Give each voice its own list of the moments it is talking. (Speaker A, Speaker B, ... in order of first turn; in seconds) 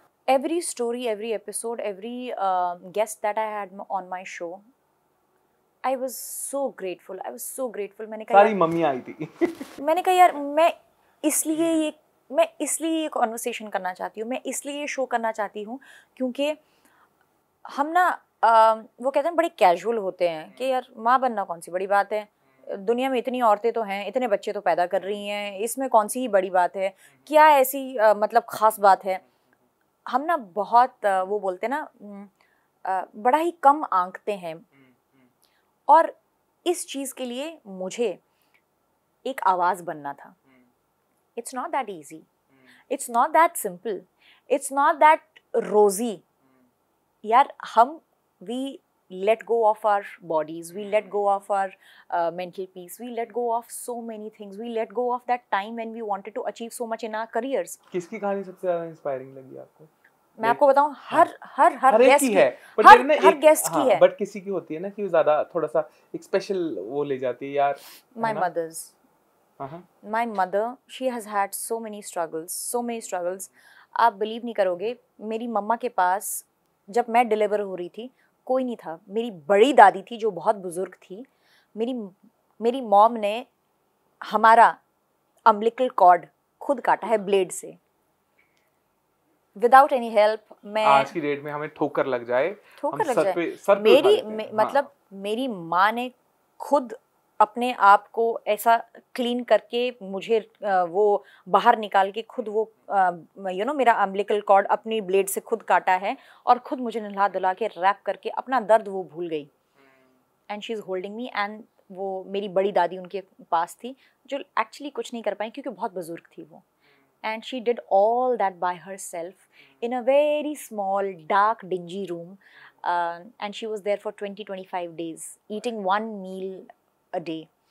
Speaker A: 0.3-4.7, 5.8-8.5, 9.8-16.6, 17.7-29.2, 30.1-32.3, 32.8-34.7, 35.9-38.2, 39.2-40.4, 41.4-42.3, 42.9-46.2, 47.2-57.8, 60.4-64.0, 68.1-68.9, 70.0-83.5, 84.2-84.8, 85.5-87.8, 89.6-91.1, 92.8-109.5, 110.5-116.6, 117.2-127.5
Speaker B: 8.3-9.7, 57.9-59.9, 61.9-68.5, 69.6-69.9, 90.8-94.8